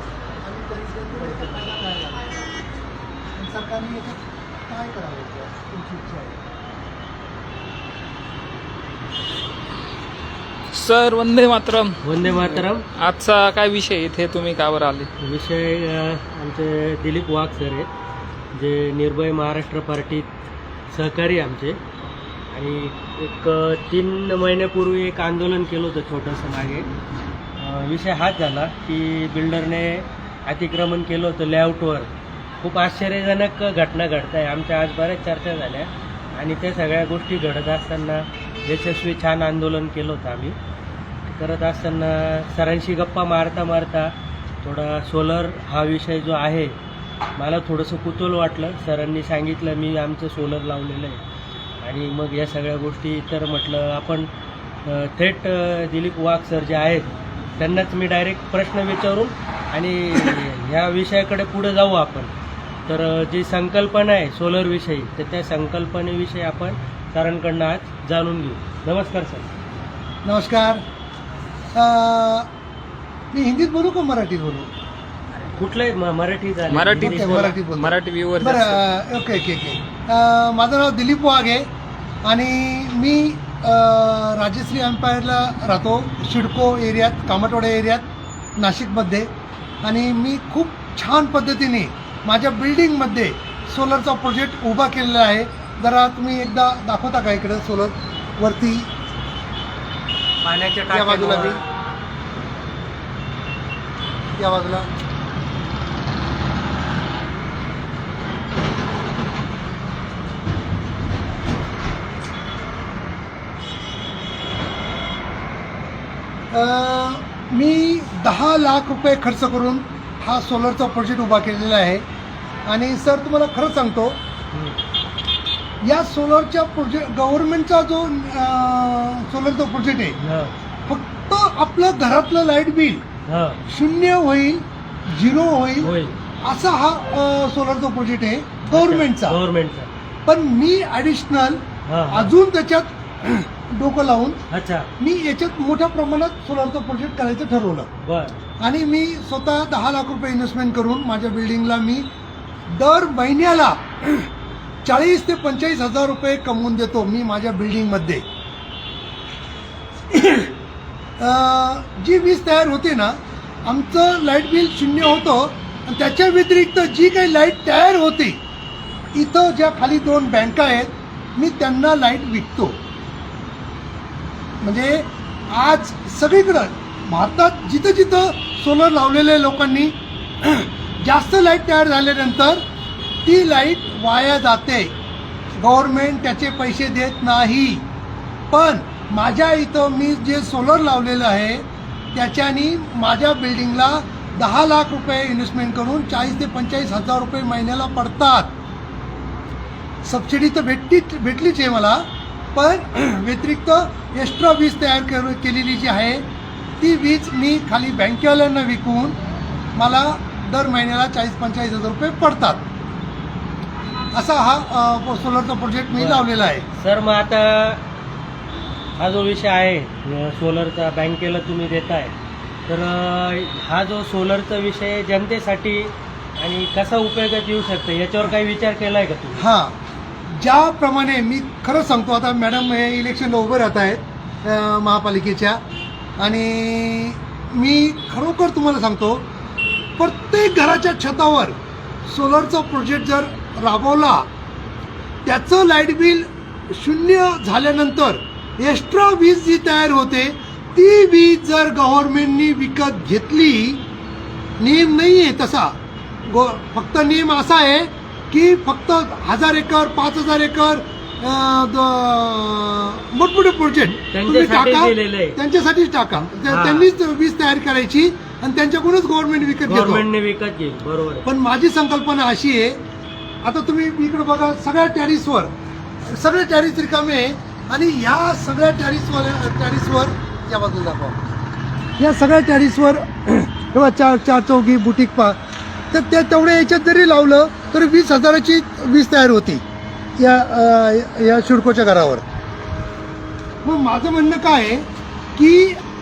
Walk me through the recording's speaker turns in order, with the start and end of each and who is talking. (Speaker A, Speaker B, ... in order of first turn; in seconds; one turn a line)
Speaker A: 0.4-2.4
Speaker A: 3.3-6.4
Speaker B: 10.7-15.1
Speaker C: 12.0-12.8
Speaker C: 15.2-17.9
Speaker C: 18.5-20.3
Speaker C: 20.9-21.8
Speaker C: 22.5-26.9
Speaker C: 27.6-32.1
Speaker C: 32.6-40.6
Speaker C: 41.3-46.8
Speaker C: 47.4-51.2
Speaker C: 51.8-54.3
Speaker C: 54.9-62.3
Speaker C: 62.9-69.5
Speaker A: 70.2-70.8
Speaker A: 71.8-72.5
Speaker A: 73.3-74.7
Speaker C: 75.5-77.5
Speaker B: 76.7-78.8
Speaker A: 77.0-81.7
Speaker A: 82.2-88.0
Speaker A: 88.6-89.3
Speaker A: 89.8-98.9
Speaker C: 100.4-101.6
Speaker A: 100.9-101.6
Speaker A: 104.4-104.9
Speaker A: 116.5-122.0
Speaker A: 122.7-124.2
Speaker C: 124.5-124.8
Speaker A: 125.8-130.2
Speaker C: 130.2-130.5
Speaker A: 130.9-133.0
Speaker C: 133.3-133.6
Speaker A: 133.7-139.4
Speaker C: 135.8-136.2
Speaker C: 138.7-139.9
Speaker A: 140.3-144.4
Speaker C: 141.9-142.3
Speaker C: 144.5-144.9
Speaker A: 145.0-147.9
Speaker C: 148.0-148.4
Speaker A: 148.6-152.1
Speaker A: 152.7-154.3
Speaker A: 154.8-158.2
Speaker A: 160.1-160.5
Speaker A: 161.2-168.4
Speaker A: 169.1-172.8
Speaker A: 174.6-182.6
Speaker A: 183.2-184.9
Speaker A: 185.6-187.9
Speaker A: 188.5-198.5
Speaker A: 200.0-206.3
Speaker A: 206.8-209.2
Speaker A: 209.8-212.7
Speaker A: 214.1-216.7
Speaker C: 215.9-217.8
Speaker C: 219.0-222.1
Speaker C: 222.7-229.4
Speaker A: 229.4-235.6
Speaker A: 236.2-239.3
Speaker A: 240.0-244.3
Speaker A: 245.2-253.8
Speaker A: 254.6-255.8
Speaker A: 256.3-270.1
Speaker C: 264.1-265.4
Speaker C: 266.3-266.9
Speaker C: 269.6-271.3
Speaker A: 271.2-272.8
Speaker A: 273.4-275.5
Speaker A: 276.0-281.2
Speaker A: 282.0-285.4
Speaker A: 285.9-289.6
Speaker A: 290.2-292.2
Speaker A: 293.6-295.8